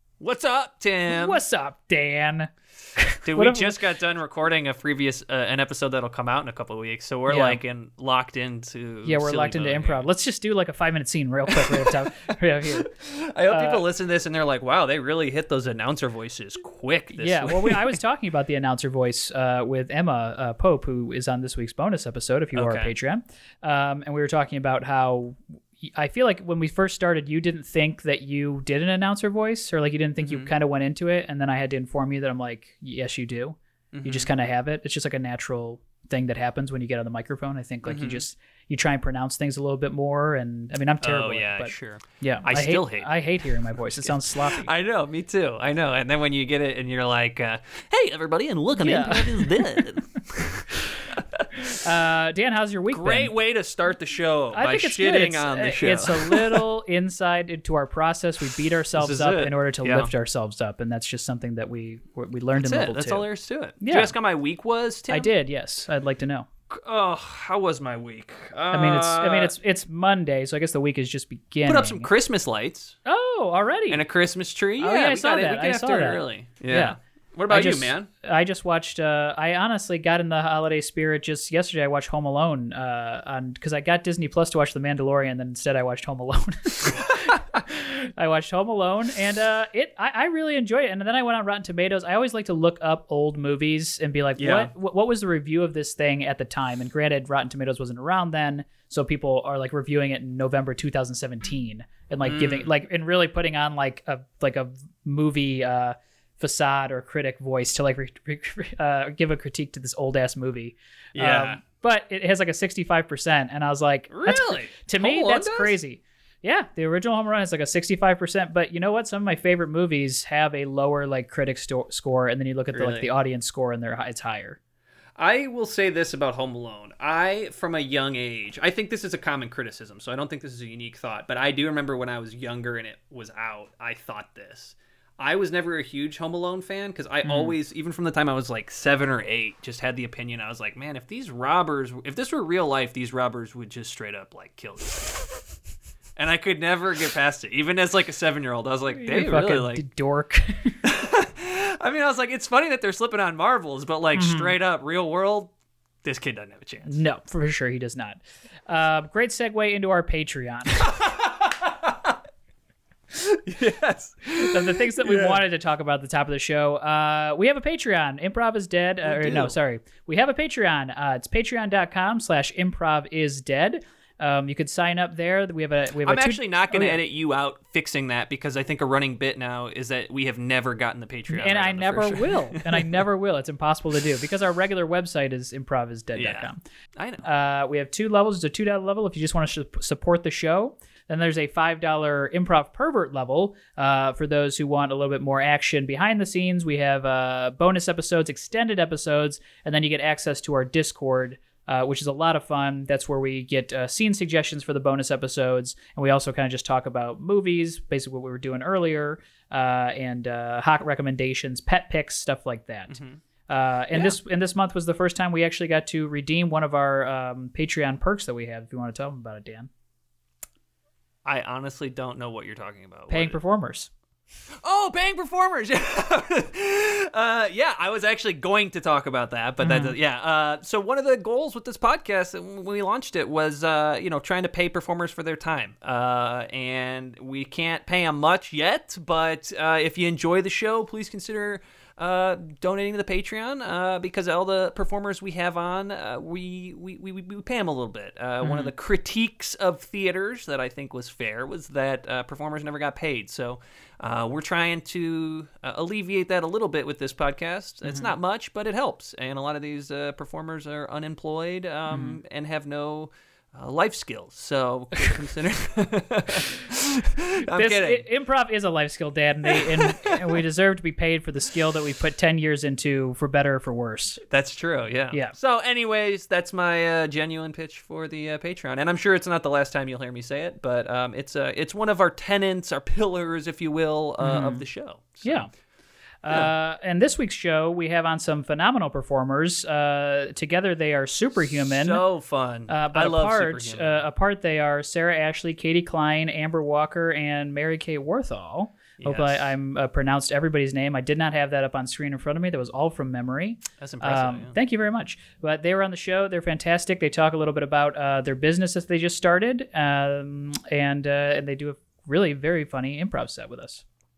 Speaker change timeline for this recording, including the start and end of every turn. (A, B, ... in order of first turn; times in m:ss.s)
0:00.2-0:01.4 A
0:01.1-0:03.8 B
0:03.2-0:10.0 A
0:07.3-0:07.6 B
0:09.0-0:12.9 B
0:11.5-0:12.1 A
0:12.7-0:18.0 A
0:13.5-0:13.9 B
0:17.2-0:44.7 B
0:22.5-0:22.9 A
0:30.2-0:30.5 A
0:33.9-0:34.3 A
0:37.8-0:38.2 A
0:41.0-0:43.1 A
0:43.8-0:51.8 A
0:48.8-0:49.9 B
0:51.7-0:53.3 B
0:52.9-0:56.6 A
0:54.5-1:03.3 B
0:59.0-1:00.1 A
1:02.6-1:05.3 A
1:03.8-1:04.1 B
1:05.1-1:06.5 B
1:06.7-1:09.5 A
1:08.7-1:12.1 B
1:11.7-1:13.0 A
1:13.0-1:14.0 B
1:13.9-1:18.1 A
1:14.8-1:17.0 B
1:17.5-2:04.6 B
1:34.4-1:34.7 A
1:42.2-1:42.7 A
1:51.2-1:51.6 A
1:54.1-1:55.8 A
2:02.7-2:03.1 A
2:05.2-2:25.4 A
2:17.2-2:17.6 B
2:26.2-2:29.9 A
2:28.9-2:30.8 B
2:30.8-2:35.5 A
2:34.1-2:34.6 B
2:36.0-2:37.0 A
2:36.9-2:41.0 B
2:40.8-2:42.2 A
2:43.2-2:45.4 A
2:44.3-2:57.0 B
2:49.0-2:49.6 A
2:56.0-3:03.0 A
3:01.3-3:06.6 B
3:06.2-3:07.3 A
3:07.2-3:39.7 B
3:32.9-3:33.2 A
3:41.2-3:43.4 A
3:43.1-3:43.9 B
3:44.6-4:28.1 A
3:49.6-3:50.0 B
4:08.4-4:08.7 B
4:21.9-4:22.2 B
4:27.5-4:34.2 B
4:29.5-4:30.2 A
4:34.3-4:45.5 A
4:44.2-4:44.6 B
4:45.2-4:45.5 B
4:46.2-4:52.0 B
4:51.4-4:54.0 A
4:52.7-5:13.8 B
4:59.0-4:59.5 A
5:03.8-5:04.6 A